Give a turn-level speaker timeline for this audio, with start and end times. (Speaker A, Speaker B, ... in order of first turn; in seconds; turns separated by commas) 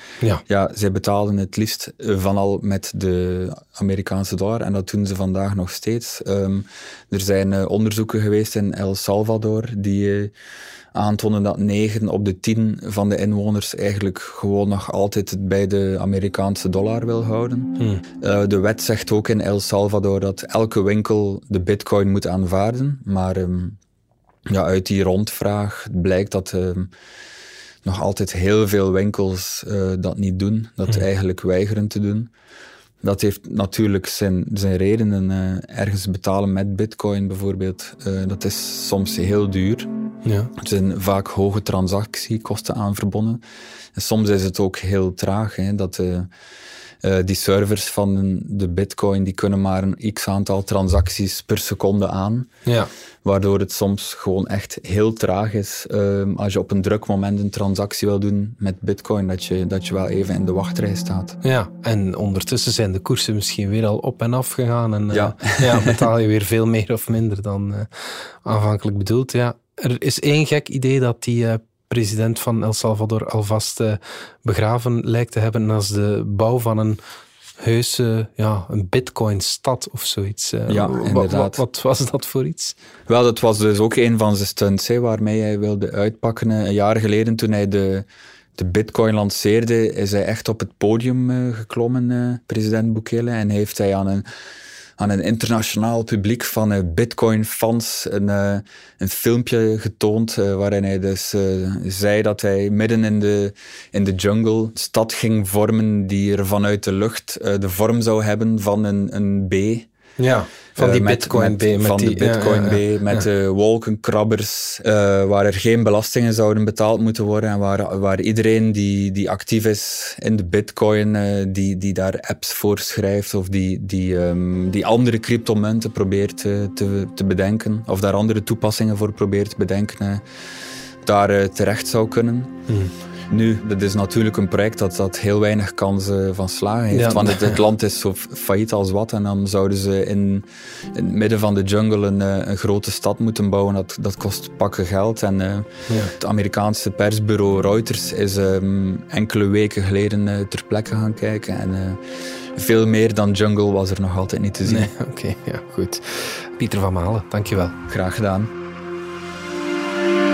Speaker A: 0.5-10.3, Speaker A: 10.9-23.8, Speaker B: 17.8-18.0, Speaker A: 24.5-26.9, Speaker A: 27.8-32.3, Speaker A: 33.0-39.9, Speaker B: 40.2-40.5, Speaker A: 40.6-43.4, Speaker A: 44.0-46.3, Speaker A: 47.0-52.5, Speaker B: 52.6-52.9, Speaker A: 53.2-61.4, Speaker B: 61.4-77.0, Speaker A: 65.1-66.0, Speaker B: 77.6-82.8, Speaker A: 80.7-81.6, Speaker A: 83.1-94.2, Speaker A: 95.0-109.9, Speaker B: 110.2-113.3, Speaker A: 110.8-130.2, Speaker A: 131.0-132.5, Speaker B: 132.7-132.9, Speaker A: 133.3-152.0, Speaker B: 136.9-137.6, Speaker A: 152.5-154.9, Speaker B: 154.7-157.8, Speaker A: 157.9-158.5